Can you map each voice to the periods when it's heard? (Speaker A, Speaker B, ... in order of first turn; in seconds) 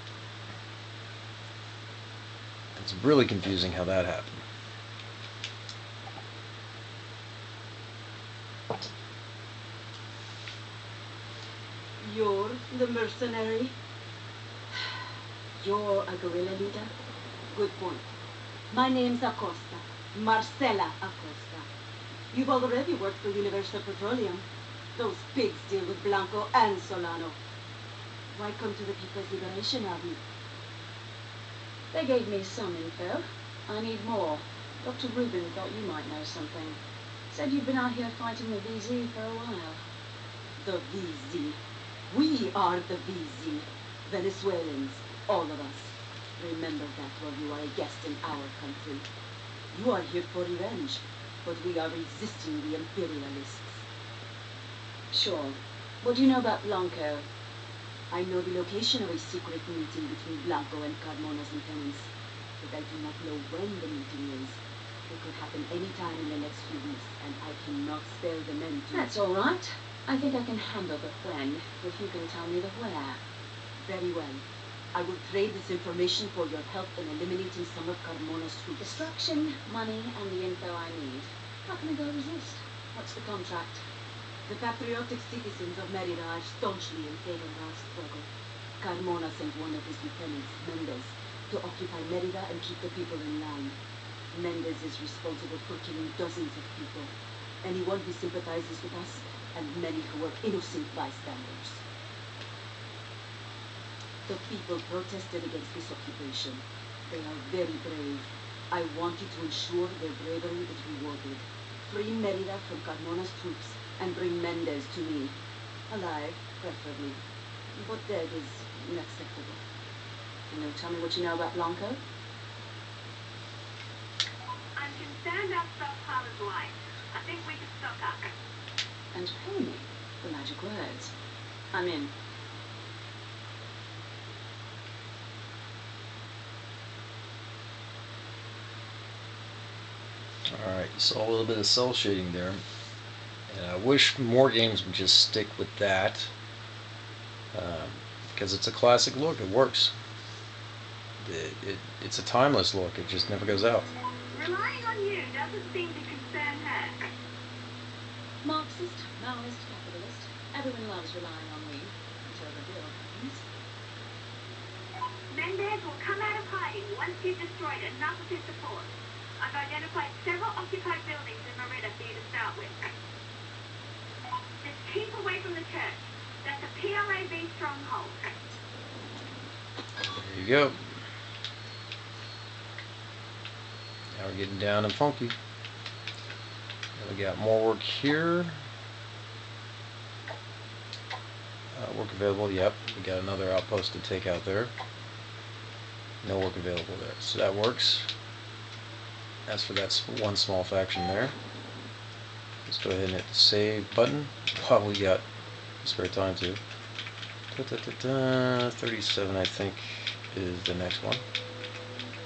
Speaker A: 2.8-4.4, 140.5-142.6, 143.5-146.3, 147.5-149.9, 151.2-153.9, 180.0-180.8, 184.1-185.3, 187.0-188.6, 191.7-194.7, 196.2-198.1, 199.5-201.3, 202.6-205.2, 205.8-206.6, 207.5-211.2
Speaker B: 12.0-13.7, 15.6-16.9, 17.5-18.1, 18.7-21.7, 22.3-27.4, 28.3-30.2, 40.6-41.6, 42.1-49.0, 49.7-53.8, 58.1-69.1, 73.8-79.1, 84.5-88.3, 88.8-93.8, 94.3-101.8, 104.3-115.4, 115.9-117.2, 117.8-119.6
Speaker C: 31.9-39.8, 55.1-57.3, 68.9-73.2, 78.8-83.8, 120.5-122.0, 129.1-131.1, 131.7-132.1, 158.4-163.4
Speaker D: 124.8-128.3, 154.3-157.0, 165.3-172.8, 174.6-178.3